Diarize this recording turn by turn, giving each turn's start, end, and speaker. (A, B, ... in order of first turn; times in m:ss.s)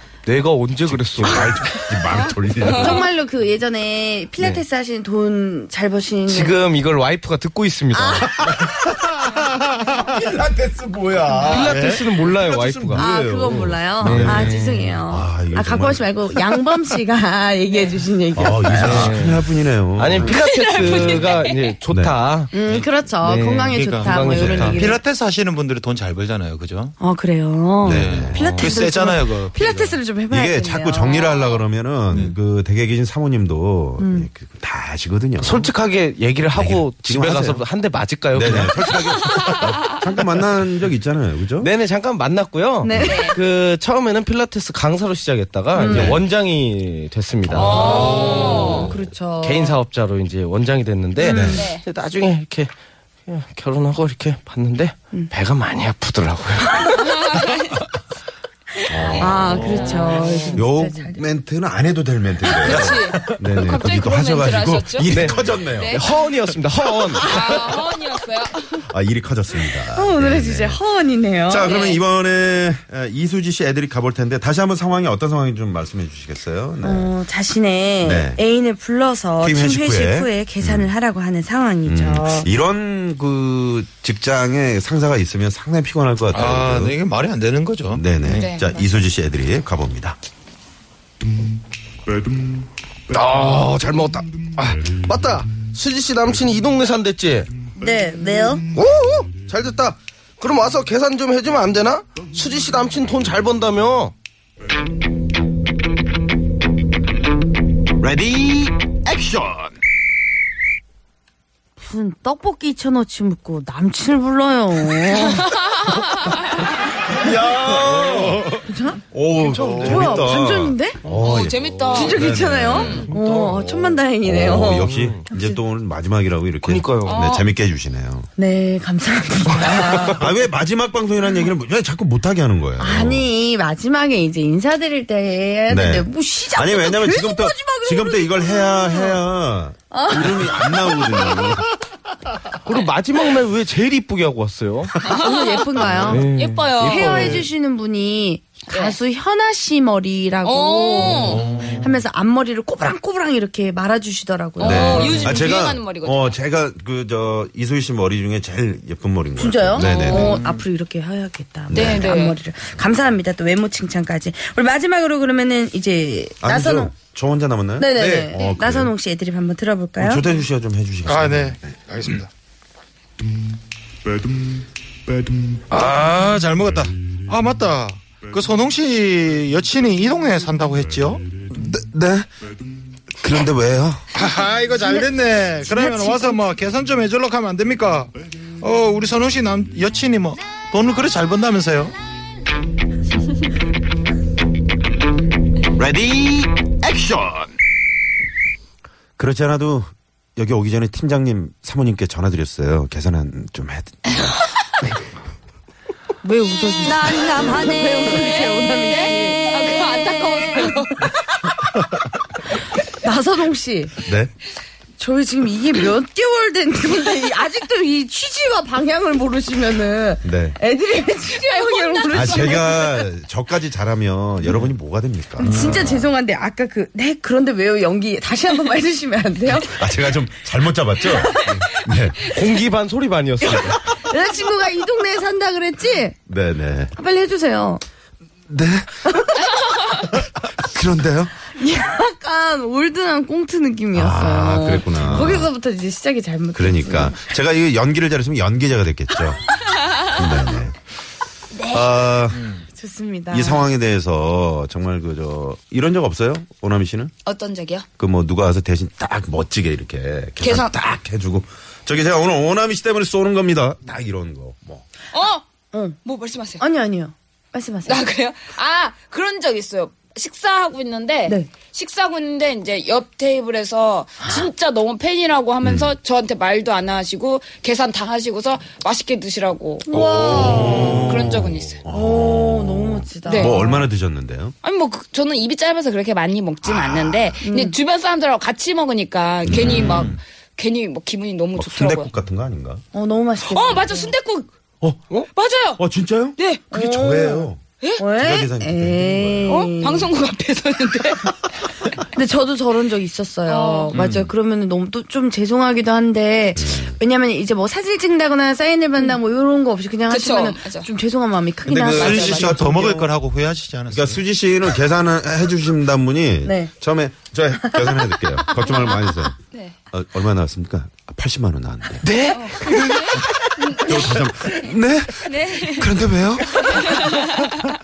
0:00.2-0:01.7 A
0:00.9-0:03.1 B
0:01.2-0:01.5 C
0:02.6-0:03.0 D
0:02.6-0:06.6 C
0:06.3-0:08.5 A
0:07.9-0:08.3 C
0:08.4-0:09.3 B
0:09.8-0:16.1 B
0:11.4-0:13.0 A
0:11.6-0:12.1 E
0:12.9-0:19.1 C
0:14.0-0:14.8 A
0:18.3-0:21.1 B
0:18.8-0:22.5 A
0:20.2-0:21.7 D
0:21.9-0:22.2 B
0:22.5-0:25.0 C
0:23.2-0:25.0 A
0:23.7-0:26.9 E
0:24.2-0:24.8 B
0:27.0-0:31.3 C
0:27.8-0:28.7 B
0:27.8-0:30.0 E
0:30.3-0:35.7 B
0:31.1-0:31.6 D
0:34.0-0:34.3 C
0:35.4-0:39.5 A
0:36.5-0:37.6 B
0:38.3-0:41.7 B
0:41.6-0:52.7 A
0:42.8-0:43.3 C
0:42.9-0:43.2 B
0:43.1-0:43.4 D
0:45.8-0:46.2 C
0:45.9-0:46.2 B
0:47.4-0:48.1 B
0:47.5-0:48.9 D
0:47.6-0:49.8 C
0:51.2-0:51.7 C
0:51.3-0:51.6 B
0:51.5-0:51.8 D
0:53.3-0:57.1 A
0:57.0-0:57.8 D
0:58.9-0:59.7 B
0:59.2-1:01.2 C
0:59.5-1:00.3 E
1:00.5-1:06.0 B
1:02.6-1:06.1 D
1:05.0-1:07.3 A
1:07.2-1:08.8 D
1:08.9-1:10.8 B
1:09.9-1:11.7 C
1:11.5-1:17.1 B
1:11.6-1:12.0 D
1:16.8-1:22.5 C
1:18.0-1:18.4 B
1:19.4-1:20.9 B
1:21.8-1:27.0 B
1:26.3-1:28.5 E
1:27.9-1:30.2 B
1:28.3-1:28.8 D
1:33.1-1:37.5 A
1:37.8-1:38.6 C
1:38.7-1:44.1 A
1:48.1-1:48.7 B
1:51.8-1:55.5 C
1:55.8-1:56.3 D
1:57.0-2:08.3 B
1:57.8-1:58.6 A
1:58.6-1:59.0 C
1:59.4-2:00.3 A
1:59.6-1:59.9 E
1:59.8-2:01.0 C
2:01.2-2:02.2 D
2:01.9-2:05.6 C
2:02.7-2:03.0 D
2:02.8-2:03.9 A
2:04.5-2:05.2 A
2:06.6-2:07.2 A
2:07.0-2:07.5 D
2:08.4-2:10.2 C
2:09.6-2:10.1 A
2:10.0-2:13.3 B
2:12.8-2:19.2 C
2:15.7-2:21.6 B
2:19.9-2:21.1 C
2:22.6-2:24.9 A
2:25.0-2:25.6 D
2:25.1-2:26.3 C
2:26.0-2:27.5 A
2:26.3-2:27.4 D
2:26.8-2:35.4 C
2:28.7-2:29.0 D
2:30.4-2:31.4 D
2:31.2-2:31.9 E
2:34.6-2:36.3 D
2:34.6-2:40.3 B
2:39.4-2:46.9 C
2:39.8-2:40.4 D
2:40.0-2:40.6 E
2:41.7-2:42.1 B
2:41.7-2:42.4 D
2:46.4-2:48.9 B
2:47.8-2:50.2 C
2:50.0-2:51.6 B
2:51.0-2:52.3 E
2:55.7-3:01.2 E
3:01.5-3:02.3 B
3:03.2-3:04.0 B
3:04.1-3:11.9 E
3:05.6-3:06.4 C
3:15.8-3:17.4 B
3:19.2-3:24.4 B
3:26.2-3:31.1 C
3:27.8-3:31.1 D
3:33.0-3:34.0 C
3:34.0-3:34.3 B
3:35.0-3:43.0 C
3:40.2-3:40.6 B
3:41.4-3:42.8 D
3:42.1-3:46.0 B
3:45.4-3:49.8 C
3:45.4-3:45.9 E
3:49.6-3:52.2 B
3:51.0-3:51.6 C
3:52.2-3:53.8 A
3:53.4-3:56.2 C
3:56.3-3:56.9 B
3:56.9-3:57.8 C
3:58.5-3:59.3 B
3:59.1-3:59.4 C
4:00.1-4:01.3 B
4:01.6-4:07.2 C
4:03.9-4:05.5 B
4:06.5-4:10.7 B
4:11.7-4:12.4 B
4:12.8-4:13.6 C
4:13.3-4:17.1 B
4:17.2-4:17.8 D
4:18.0-4:24.8 B
4:20.4-4:20.7 D
4:25.1-4:25.4 D
4:26.0-4:26.6 D
4:26.6-4:28.0 C
4:27.8-4:39.9 D
4:34.2-4:34.5 C
4:35.6-4:35.9 B
4:39.9-4:41.0 C
4:40.0-4:44.5 B
4:40.0-4:41.0 E
4:40.5-4:41.8 D
4:41.9-4:43.9 C
4:43.2-4:43.5 D
4:44.6-4:52.1 D
4:46.7-4:47.3 B
4:47.4-4:47.8 C
4:49.5-4:50.1 B
4:49.6-4:50.2 E
4:51.6-4:52.8 B
4:52.9-4:54.1 C
4:53.5-4:54.5 D
4:55.3-4:55.8 D
4:55.8-4:57.6 B
4:56.4-4:56.6 D
4:56.7-5:00.1 C
4:58.1-4:59.6 B
4:59.5-5:01.4 D
5:02.0-5:12.7 C
5:03.5-5:03.9 D
5:03.9-5:04.3 E
5:06.6-5:07.0 B
5:10.1-5:10.9 D
5:11.7-5:13.1 B
5:11.8-5:14.2 E
5:13.9-5:19.3 B
5:16.4-5:16.7 C
5:17.6-5:18.6 C
5:18.7-5:19.0 D
5:19.9-5:27.3 B
5:22.1-5:22.4 E
5:22.3-5:24.0 D
5:25.2-5:25.9 D
5:26.6-5:27.7 D